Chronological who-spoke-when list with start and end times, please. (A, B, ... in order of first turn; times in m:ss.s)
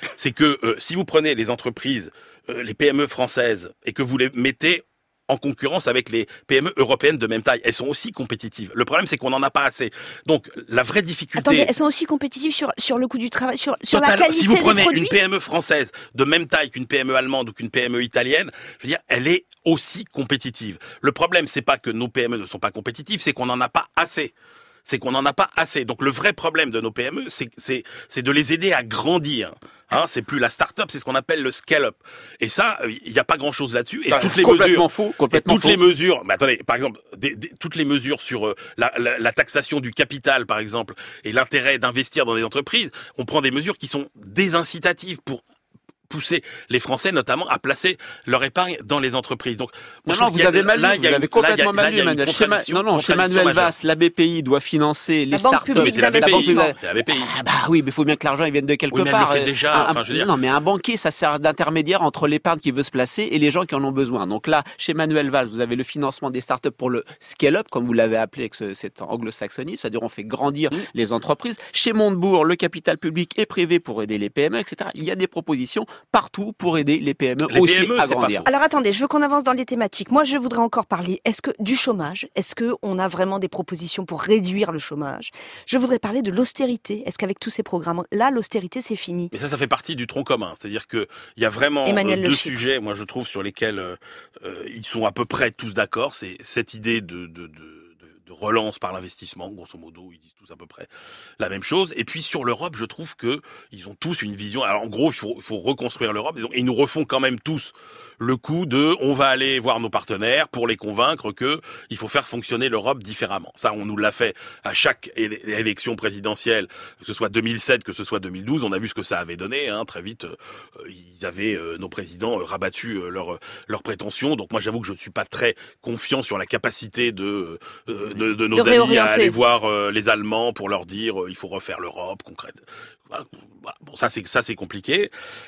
0:00.2-0:11.7 A
0:11.4-0:15.2 B
0:13.9-0:24.3 A
0:24.8-0:45.4 A
0:34.1-0:35.8 C
0:46.1-0:53.7 A
0:50.1-1:18.5 C
0:55.3-0:56.7 B
0:55.8-0:57.3 A
0:58.9-1:00.3 A
1:17.4-1:18.5 A
1:18.4-1:29.3 B
1:29.3-1:40.9 A
1:31.8-1:32.6 B
1:41.4-2:12.6 A
2:08.5-2:09.4 B
2:13.1-2:15.1 A